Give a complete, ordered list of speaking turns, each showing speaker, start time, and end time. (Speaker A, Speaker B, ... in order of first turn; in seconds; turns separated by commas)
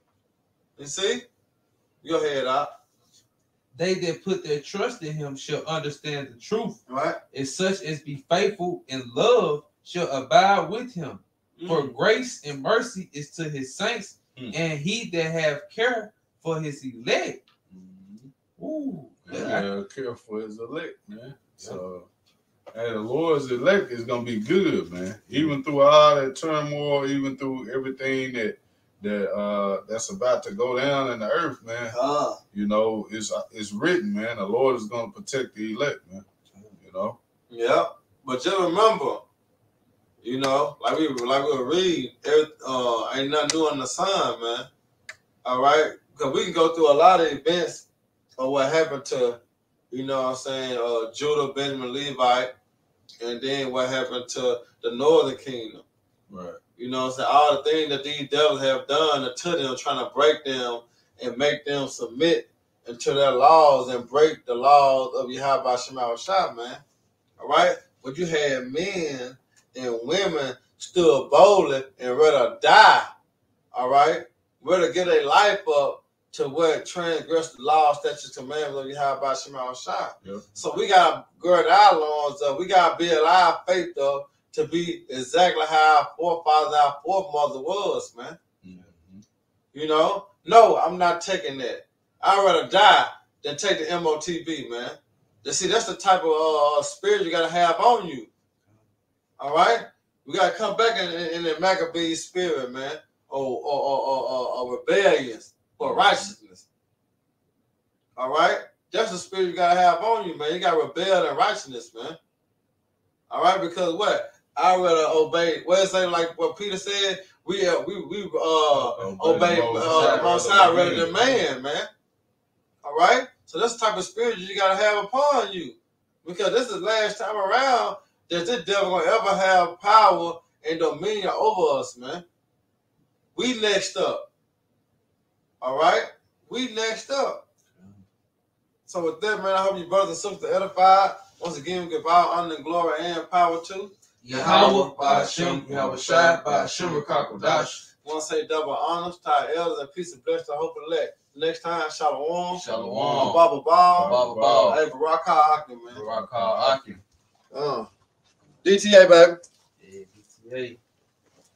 Speaker A: 0.8-1.2, Speaker A: 2.0-2.7, Speaker B: 3.7-6.8, Speaker A: 6.9-7.2, Speaker B: 7.3-17.4, Speaker A: 11.6-11.9, Speaker C: 17.7-18.3, Speaker B: 18.6-19.6, Speaker C: 19.3-22.1, Speaker C: 22.7-31.9, Speaker A: 31.9-32.4, Speaker C: 32.5-36.3, Speaker C: 36.8-37.2, Speaker A: 37.5-39.2, Speaker A: 40.2-44.7, Speaker A: 45.4-47.9, Speaker A: 48.4-49.4, Speaker A: 49.9-52.5, Speaker A: 53.2-55.8, Speaker C: 56.3-56.6, Speaker A: 56.8-66.8, Speaker A: 67.4-73.1, Speaker A: 73.7-88.4, Speaker C: 80.2-80.5, Speaker C: 88.6-89.2, Speaker A: 89.7-98.3, Speaker A: 99.4-106.7, Speaker C: 105.8-106.2, Speaker A: 108.2-112.2, Speaker A: 113.3-121.9, Speaker C: 118.8-121.2, Speaker B: 119.7-121.3, Speaker A: 122.8-132.2, Speaker A: 133.4-134.3, Speaker A: 135.6-137.4, Speaker B: 137.8-138.0, Speaker A: 138.9-146.8, Speaker B: 144.2-147.8, Speaker C: 144.4-147.8, Speaker A: 148.0-156.0, Speaker B: 152.5-154.8, Speaker C: 152.6-153.4, Speaker C: 153.9-154.8, Speaker B: 155.9-157.0, Speaker C: 155.9-157.0, Speaker A: 157.5-157.9, Speaker A: 158.6-159.4, Speaker B: 159.8-160.8